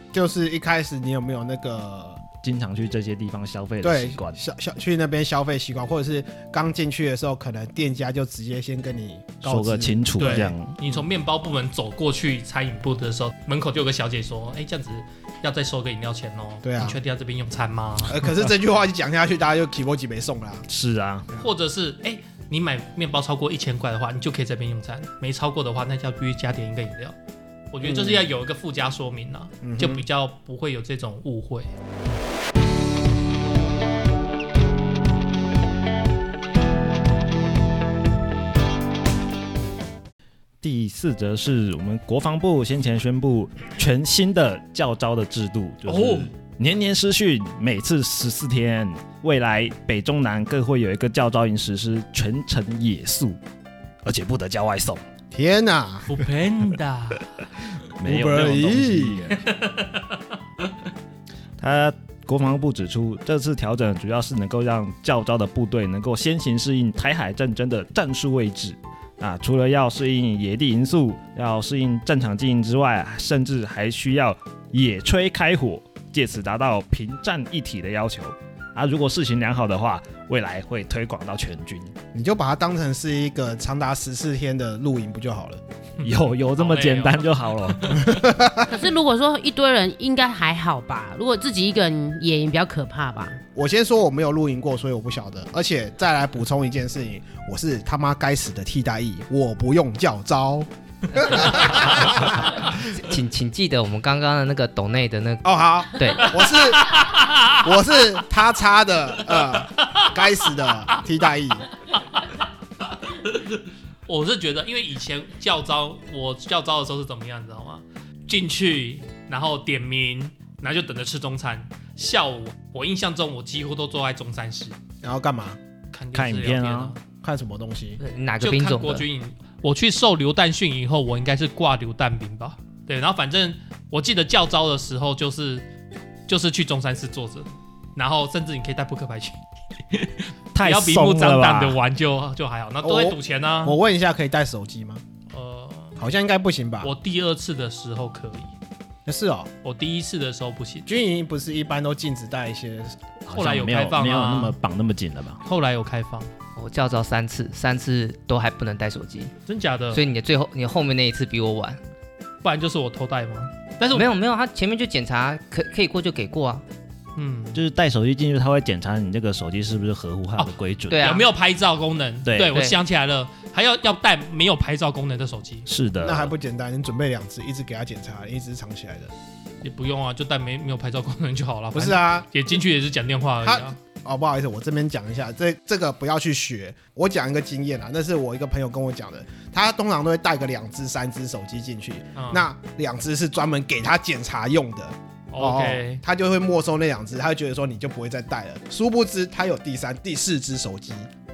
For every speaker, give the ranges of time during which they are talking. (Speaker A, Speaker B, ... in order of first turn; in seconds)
Speaker A: 0.1-2.2, 3.8-11.0, 16.6-17.0, 18.1-20.6, 27.8-28.3, 29.6-30.0, 55.3-56.1, 58.0-59.3, 82.1-85.6, 88.0-88.7, 93.5-102.4, 105.4-107.0, 107.5-111.7, 125.0-125.6, 127.2-128.0, 142.8-145.0, 146.0-146.9, 149.1-149.5, 150.9-153.0, 176.0-179.1, 181.8-182.3, 183.4-201.1
Speaker B: 2.4-4.4, 9.4-10.8, 20.7-21.3, 40.6-53.4, 54.0-55.0, 58.0-59.4, 61.6-81.9, 86.0-88.0, 126.1-127.0, 140.5-141.8, 153.3-155.4, 167.5-171.0, 172.3-172.5, 175.7-176.3
Speaker C: 10.2-18.2, 21.4-27.2, 27.7-31.7, 45.9-46.3, 56.1-57.5, 59.4-60.2, 86.0-88.2, 106.2-107.7, 109.3-110.1, 112.0-112.3, 112.8-124.8, 125.9-127.0, 128.4-135.7, 136.3-143.8, 145.3-146.0, 146.8-148.5, 149.6-150.9, 153.3-154.6, 155.4-156.3, 159.5-160.0, 162.4-164.1, 167.2-167.6, 170.4-175.7, 179.6-183.8, 192.2-192.5, 195.3-196.0
Speaker D: 88.7-93.4
Speaker E: 101.7-105.5, 106.0-106.2, 128.0-129.1, 156.6-159.3, 159.9-161.8, 163.9-166.6, 170.9-171.3, 172.5-172.8